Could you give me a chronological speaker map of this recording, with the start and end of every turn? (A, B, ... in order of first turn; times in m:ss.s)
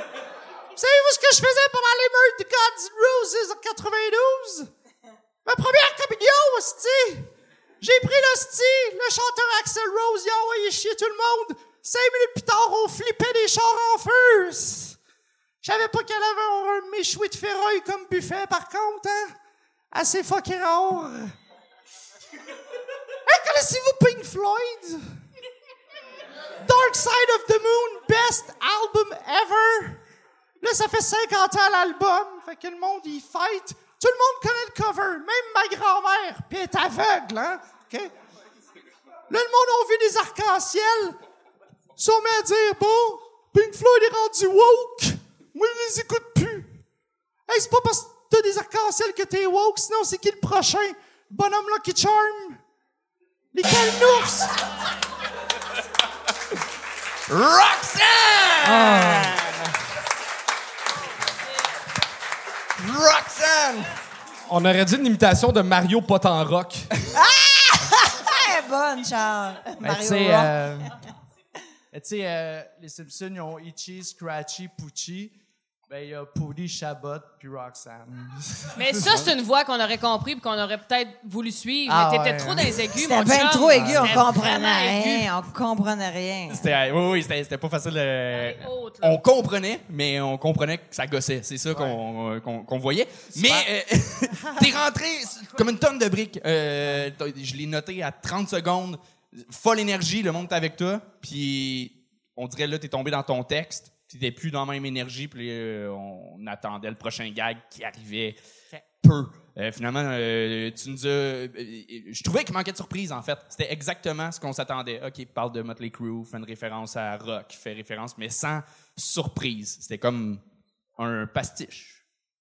0:00.8-0:04.7 A
0:05.4-0:15.0 A
0:15.6-0:19.4 A
0:19.9-0:21.3 A
0:23.2-0:25.2 A
0:26.6-0:30.0 A
0:30.6-0:38.1 A
0:39.3-0:41.2 A
0:42.0-0:46.7 A
0:47.5-0:52.6 A
0:53.5-0:54.5 A
0:57.3-0:59.7 B
0:58.6-0:59.4 C
1:02.8-1:03.9 B
1:04.5-1:06.8 D
1:07.1-1:10.6 C
1:09.8-1:10.9 E
1:11.9-1:15.3 E
1:15.9-1:19.3 E
1:18.8-1:25.3 F
1:21.8-1:23.0 E
1:23.0-1:26.6 C
1:23.6-1:24.3 E
1:26.5-1:48.4 B
1:28.3-1:29.2 F
1:49.0-2:00.4 B
2:01.0-2:02.0 B